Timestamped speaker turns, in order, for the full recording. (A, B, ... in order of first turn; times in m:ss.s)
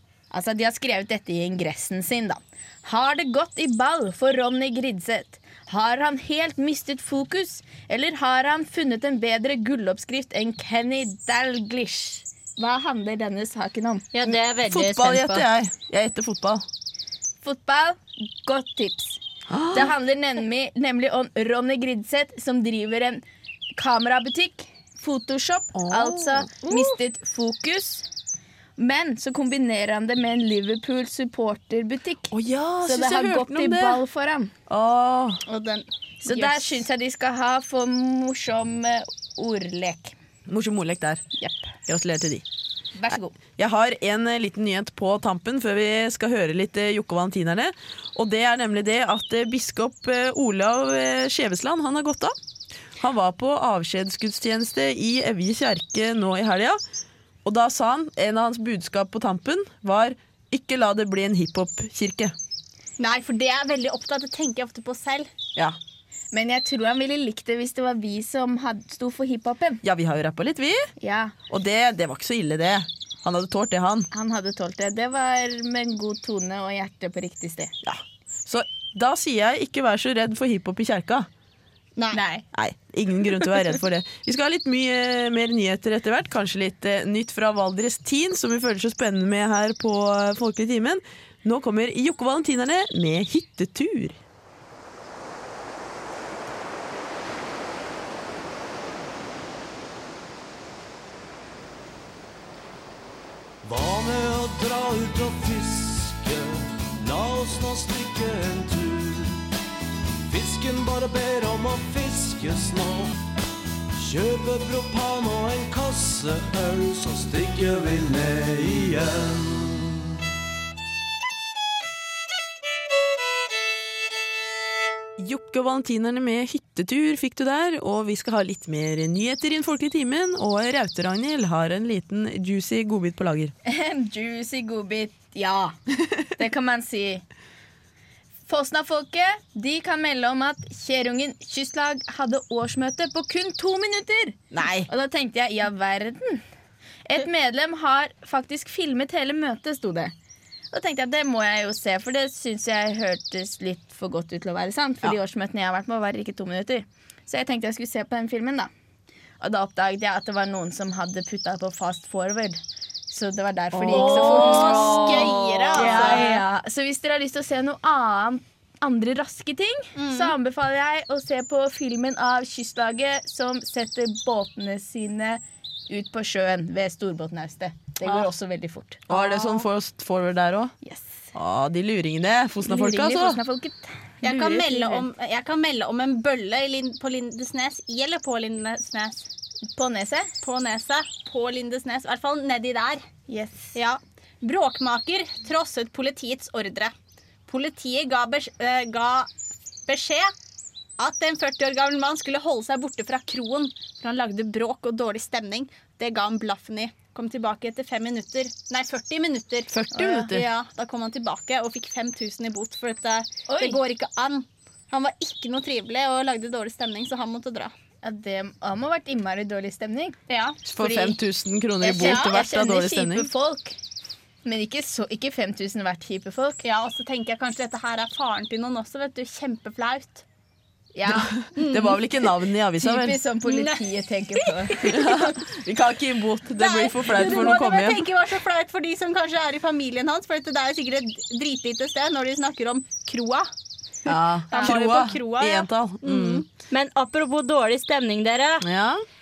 0:00.3-0:14.1 A
0:14.1-0:15.4 B
0:14.3-0:16.6 C
0:17.4-0:19.2 A
0:19.5-0:19.9 C
0:19.7-0:23.2 A
0:23.8-0:28.0 A
0:25.8-0:26.9 C
0:28.8-0:32.3 A
0:32.3-0:34.0 C
0:32.8-0:34.5 A
0:34.7-0:35.4 C
0:35.4-0:36.8 D
0:36.2-0:40.1 A
0:40.5-0:41.2 C
0:41.4-0:41.7 A
0:41.9-0:42.4 C
0:43.0-0:43.4 A
0:43.1-0:52.3 C
0:53.0-0:56.8 C
0:57.4-1:02.4 C
1:03.0-1:05.3 D
1:06.3-1:09.8 A
1:09.8-1:10.9 C
1:11.0-1:11.3 A
1:11.5-1:14.1 C
1:14.1-1:17.7 A
1:17.8-1:21.3 C
1:22.0-1:22.2 D
1:22.1-1:22.4 A
1:22.5-1:34.2 C
1:43.6-1:49.5 E
1:50.2-1:53.2 E
1:54.0-2:00.0 E
2:05.2-2:13.5 C
2:13.6-2:17.2 A
2:18.5-2:26.4 A
2:24.5-2:24.9 C
2:27.0-2:30.1 A
2:30.7-2:38.7 A
2:39.4-2:59.0 A
2:43.7-2:45.0 C
2:43.9-2:46.4 D
2:45.8-2:46.2 C
2:50.0-2:50.3 D
2:58.0-2:58.3 D
2:59.1-3:00.8 C
2:59.1-2:59.6 D
3:00.8-3:01.3 A
3:01.3-3:03.4 C
3:02.6-3:05.0 A
3:04.2-3:09.3 D
3:09.7-3:10.3 A
3:10.4-3:13.0 D
3:13.3-3:13.8 A
3:13.7-3:16.9 D
3:17.5-3:19.3 D
3:19.8-3:20.3 D
3:21.0-3:37.7 D
3:29.7-3:30.5 C
3:30.0-3:30.2 A
3:33.5-3:33.8 A
3:38.0-3:40.2 A
3:40.3-3:40.6 D
3:40.6-3:43.3 C
3:40.8-3:41.1 A
3:41.8-3:43.8 A
3:41.9-3:42.3 D
3:44.4-3:46.6 A
3:46.6-3:50.2 D
3:50.9-3:51.4 A
3:51.1-3:53.2 C
3:51.6-3:52.1 D
3:52.8-3:55.4 A
3:53.4-3:55.1 D
3:54.8-3:58.1 C
3:56.6-4:03.5 D
4:04.0-4:06.4 C
4:04.5-4:06.4 D
4:06.7-4:08.6 B
4:08.6-4:09.0 C